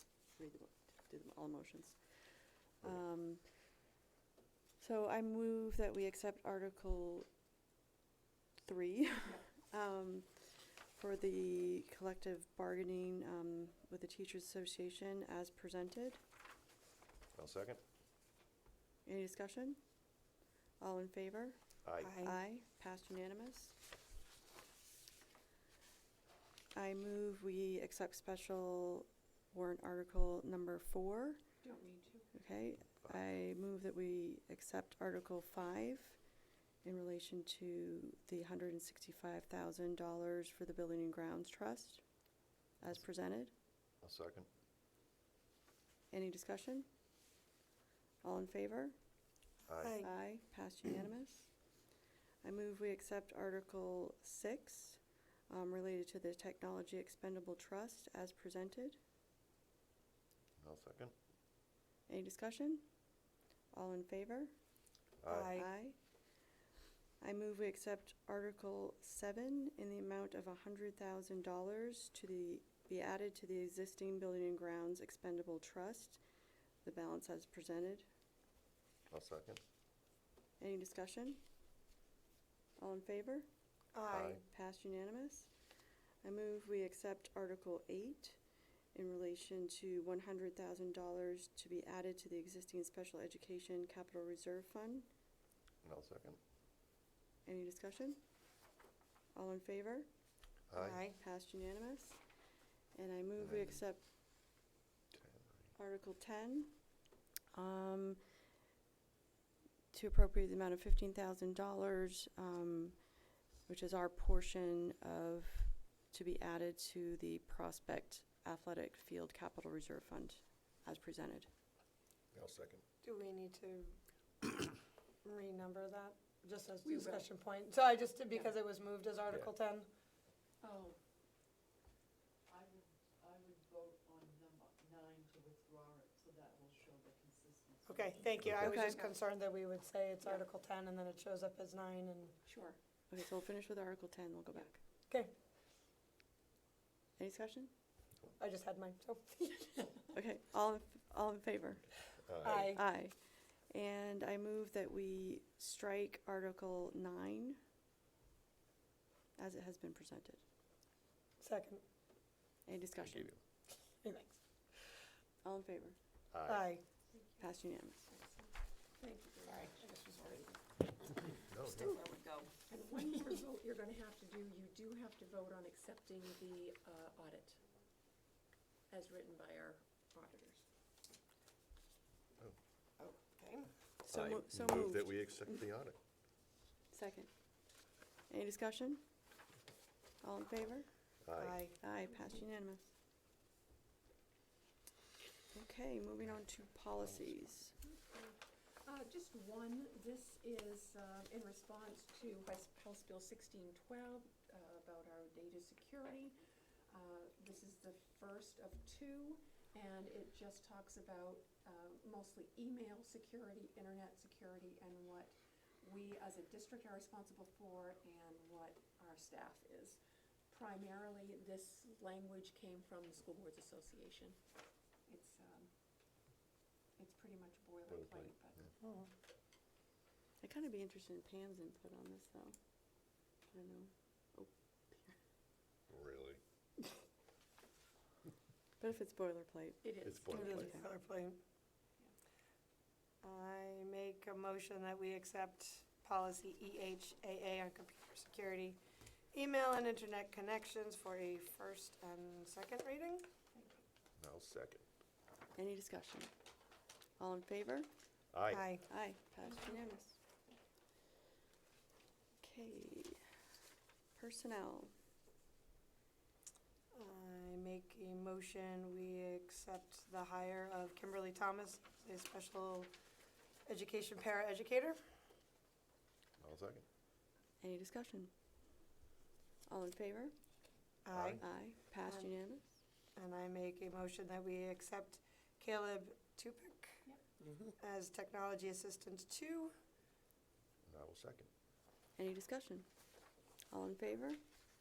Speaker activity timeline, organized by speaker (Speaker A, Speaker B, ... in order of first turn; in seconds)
Speaker A: 0.3-2.2, 2.8-3.4, 4.8-7.3, 8.6-10.3, 10.9-16.2, 19.0-19.8, 20.8-23.7, 26.7-31.4, 32.3-36.2, 36.8-42.0, 42.8-43.5, 46.1-46.9, 48.2-49.0, 50.0-51.5, 52.4-59.0, 62.1-62.8, 63.7-64.5, 65.5-66.0, 67.2-76.2, 76.8-78.1, 80.6-81.4, 82.8-83.5, 84.4-85.5, 86.2-88.4, 88.9-95.1, 97.5-98.2, 99.4-100.1, 100.8-102.2, 103.0-104.0, 105.8-106.7, 107.5-108.2, 109.9-113.0, 113.7-121.5, 138.6-139.0, 143.1-144.8, 147.2-147.7, 150.1-152.0, 152.5-153.1, 153.7-157.6, 159.4-160.4, 162.7-163.3, 165.4-165.9, 167.4-168.1, 184.0-185.1, 186.9-187.3, 188.3-189.0, 190.2-190.9, 191.8-192.9, 195.5-197.7, 230.4-232.5, 233.5-235.2, 238.8-240.0, 240.5-240.8, 255.5-256.3, 257.2-257.9, 258.8-260.2, 262.4-263.2, 264.1-264.9, 277.6-278.3, 279.7-280.4, 281.4-282.7, 292.2-292.9, 293.7-294.4
Speaker B: 17.3-17.8, 21.8-22.1, 44.0-44.5, 49.7-50.0, 60.6-61.1, 65.2-65.5, 79.1-79.6, 84.1-84.4, 95.8-96.4, 100.7-101.0, 103.4-103.8, 105.1-105.7, 122.3-122.8, 138.4-138.8, 152.3-152.8, 163.0-163.4, 166.3-166.6, 171.5-172.0, 184.1-186.0, 191.2-191.6, 227.9-228.7, 235.9-236.4, 240.0-240.8, 254.2-254.8, 258.3-258.7, 276.4-276.9, 281.1-281.4, 290.9-291.5
Speaker C: 22.0-22.3, 49.8-50.1, 65.3-65.7, 83.9-84.4, 100.8-101.2, 123.0-129.9, 137.8-142.3, 148.4-150.1, 152.4-152.8, 161.4-161.8, 164.0-164.3, 166.5-166.8, 183.0-183.7, 191.4-191.8, 240.3-241.4, 243.2-248.8, 249.3-253.2, 258.5-258.9, 266.9-272.9, 273.7-275.0, 281.1-281.4, 283.2-287.1, 287.8-289.7
Speaker D: 31.6-32.3, 126.8-127.3, 130.6-131.0, 142.4-142.8, 167.1-167.4, 168.1-170.6, 171.1-177.6, 178.9-180.7, 198.0-206.4, 206.9-224.4, 225.1-225.7, 227.0-228.6, 239.8-240.6, 253.5-253.8, 259.4-259.9
Speaker E: 132.5-137.9